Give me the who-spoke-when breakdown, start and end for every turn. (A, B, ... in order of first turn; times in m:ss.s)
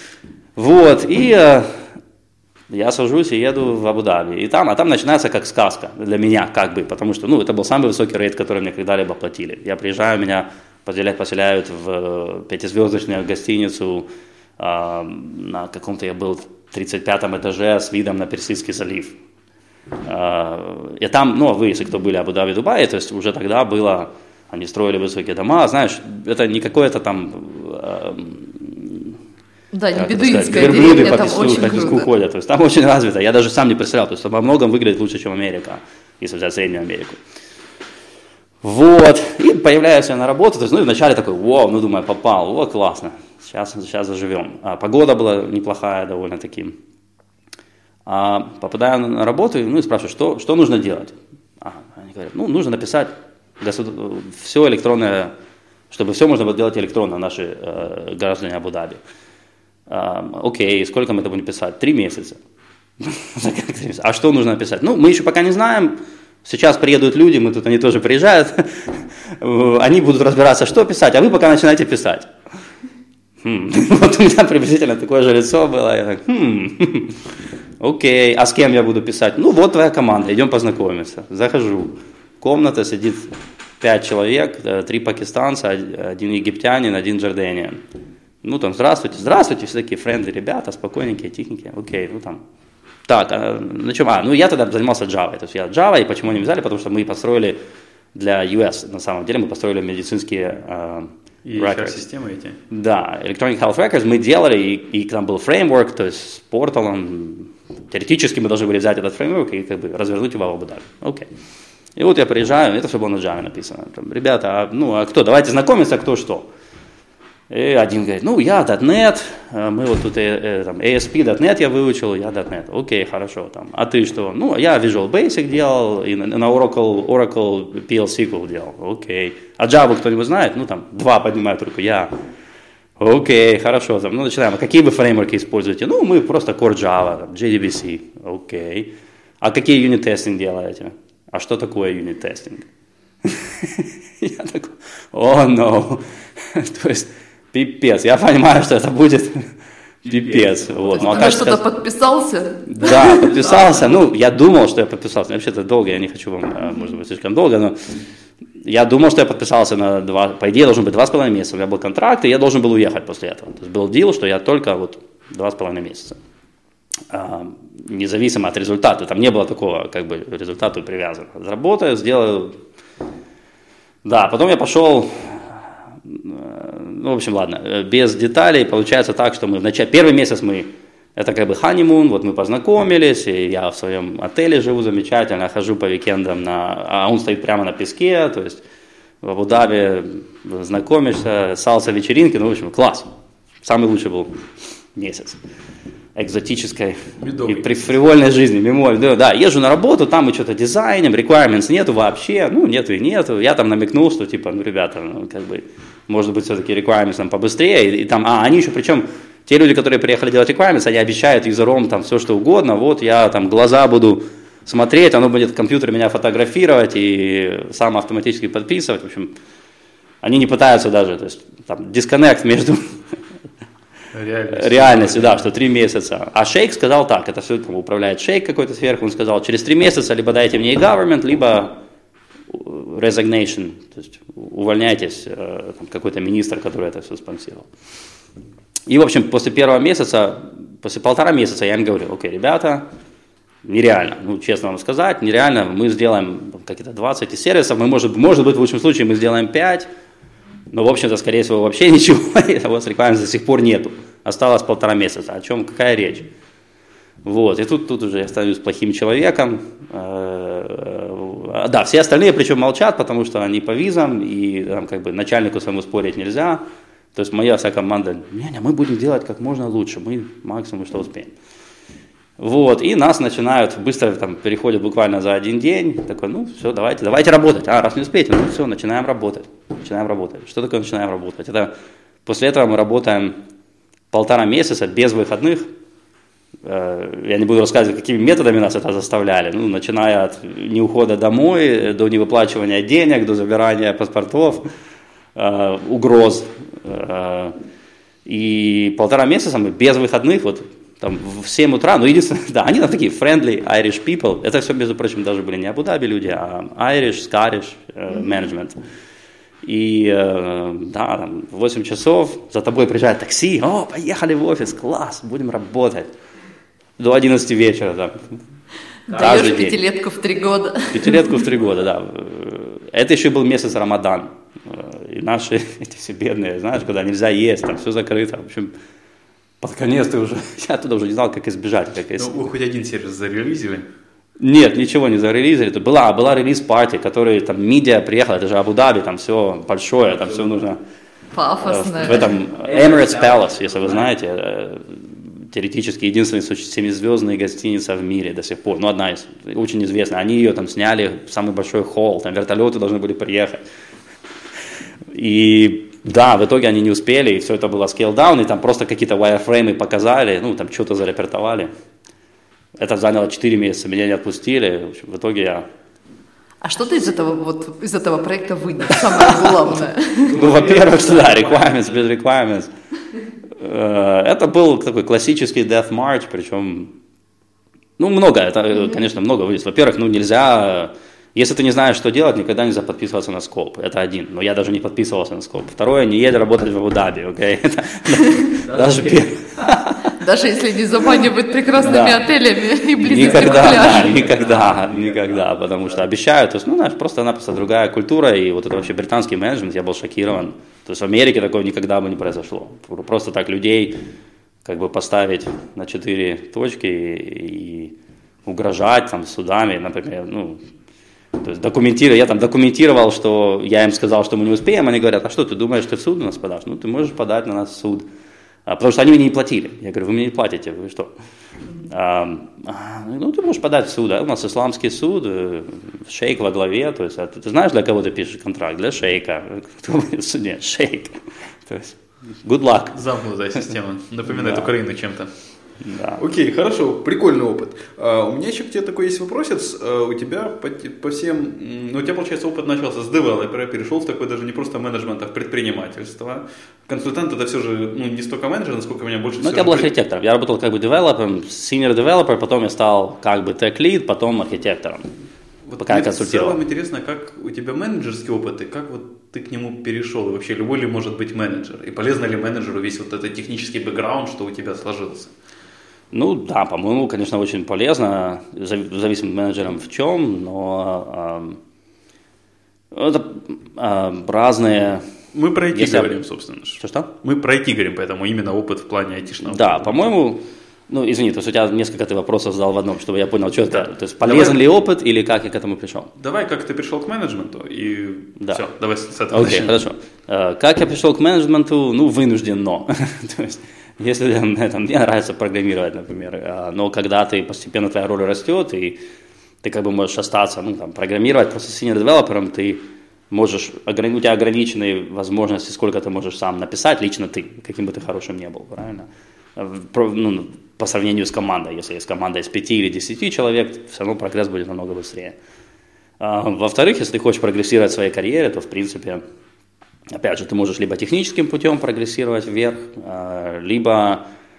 0:00.6-0:01.8 A
0:02.7-0:14.1 A
0:14.6-0:19.2 A
0:20.0-0:29.2 A
0:29.7-0:32.1 B
0:30.0-0:37.2 A
0:38.6-0:46.8 A
0:48.1-0:55.3 A
0:55.9-0:59.0 A
0:59.9-1:02.4 A
1:03.0-1:12.3 A
1:13.4-1:17.2 A
1:17.8-1:27.8 A
1:28.4-1:32.4 A
1:33.1-1:37.6 A
1:38.1-1:42.0 A
1:41.4-1:42.6 C
1:42.7-1:51.3 A
1:52.0-1:56.5 A
1:57.5-2:12.1 A
2:13.0-2:22.7 A
2:23.2-2:29.5 A
2:30.0-2:31.7 A
2:30.9-2:33.4 B
2:32.7-2:37.8 A
2:38.6-2:46.2 A
2:47.1-2:52.6 A
2:54.0-3:08.6 A
3:09.2-3:13.1 A
3:13.6-3:14.4 A
3:15.0-3:15.4 A
3:16.2-3:39.3 A
3:17.2-3:17.8 C
3:40.2-3:43.0 A
3:44.1-3:45.5 C
3:44.5-3:51.8 A
3:52.5-3:57.7 A
3:58.9-4:02.9 A
4:03.6-4:09.9 A
4:10.7-4:16.3 A
4:17.2-4:31.3 A
4:32.4-4:41.7 A
4:42.3-4:43.4 A
4:44.1-4:45.7 A
4:46.6-4:54.7 A
4:55.4-4:57.6 A
4:58.3-5:08.8 A
5:09.6-5:16.1 A
5:17.0-5:18.4 A
5:19.1-5:21.4 B
5:19.1-5:19.8 A
5:20.9-5:28.7 A
5:29.6-5:32.4 A
5:32.2-5:33.9 C
5:34.4-5:40.8 A
5:41.3-5:42.3 B
5:41.6-5:53.6 A
5:55.1-6:01.7 A
6:02.8-6:05.7 A
6:06.6-6:10.5 B
6:10.2-6:12.7 A
6:13.6-6:16.9 A
6:18.0-6:30.2 A
6:30.2-6:34.2 B
6:31.8-6:32.3 A
6:33.0-6:44.0 A
6:44.6-6:47.9 A
6:48.4-6:50.6 A
6:51.4-6:58.1 A
6:58.7-7:01.1 A
7:01.8-7:13.0 A
7:12.9-7:15.3 C
7:14.4-7:14.7 A
7:15.8-7:16.2 A
7:16.2-7:29.9 C
7:29.4-7:35.1 A
7:35.7-7:45.3 C
7:35.8-7:36.6 A
7:46.1-7:51.6 A
7:52.9-7:55.1 A
7:55.3-8:00.1 C
7:55.7-7:56.2 A
7:56.8-7:57.1 A
7:59.5-8:06.1 A
8:03.8-8:04.6 C
8:06.2-8:09.8 C
8:08.4-8:08.6 A
8:09.3-8:19.0 A
8:19.6-8:35.4 A
8:36.2-8:39.2 A
8:40.1-8:44.3 A